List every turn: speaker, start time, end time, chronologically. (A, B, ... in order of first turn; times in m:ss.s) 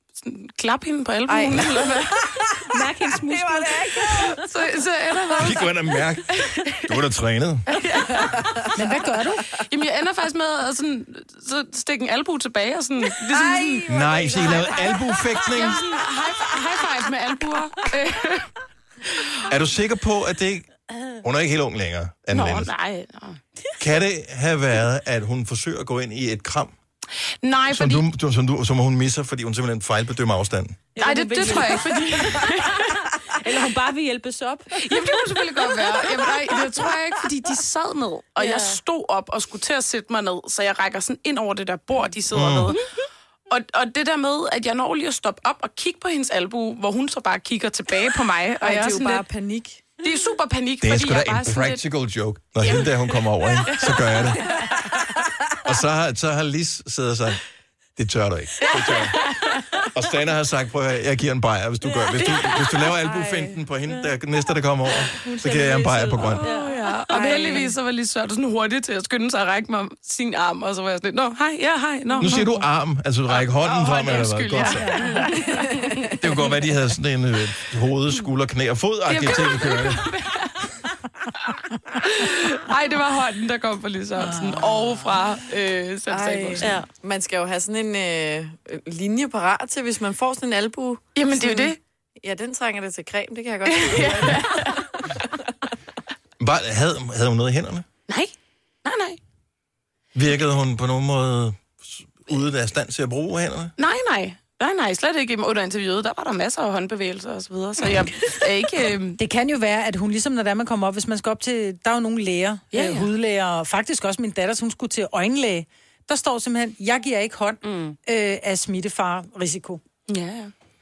0:00.2-0:02.2 A
0:01.3-0:04.4 B
0:02.5-0:04.4 C
0:04.3-0:05.6 A
0:05.4-0:06.3 D
0:06.3-0:06.9 A
0:06.9-0:07.7 D
0:07.7-0:08.4 A
0:08.0-0:09.6 B
0:08.7-0:09.5 E
0:09.7-0:13.9 A
0:13.2-0:17.0 B
0:13.9-0:15.8 D
0:15.5-0:18.5 A
0:19.5-0:20.7 D
0:21.2-0:22.7 D
0:22.3-0:23.4 A
0:23.8-0:26.7 D
0:27.4-0:28.0 A
0:27.7-0:30.8 D
0:31.0-0:35.7 C
0:31.0-0:32.9 A
0:34.8-0:42.8 A
0:38.4-0:38.8 C
0:42.3-0:42.7 D
0:43.5-0:49.2 A
0:48.6-0:49.9 B
0:50.0-0:51.8 A
0:50.8-0:54.4 D
0:54.4-0:55.3 B
0:55.6-0:57.4 D
0:58.0-0:59.2 D
0:58.6-0:59.9 B
0:59.9-1:06.4 D
1:01.9-1:02.6 C
1:02.9-1:03.6 B
1:04.9-1:07.7 C
1:06.4-1:12.4 A
1:07.1-1:07.8 B
1:12.2-1:14.9 D
1:13.4-1:15.6 A
1:14.8-1:16.2 B
1:14.8-1:15.2 E
1:15.2-1:15.6 C
1:16.2-1:20.1 D
1:19.1-1:20.6 A
1:21.9-1:26.8 A
1:24.6-1:24.9 B
1:26.1-1:35.0 B
1:26.6-1:26.9 C
1:31.2-1:31.8 A
1:33.7-1:34.8 A
1:36.4-1:37.8 D
1:38.1-1:38.3 A
1:38.8-1:39.2 A
1:40.1-1:43.7 D
1:43.8-1:49.2 A
1:49.2-1:59.8 E
1:52.7-1:53.1 A
1:57.6-1:58.0 C
2:00.1-2:00.5 A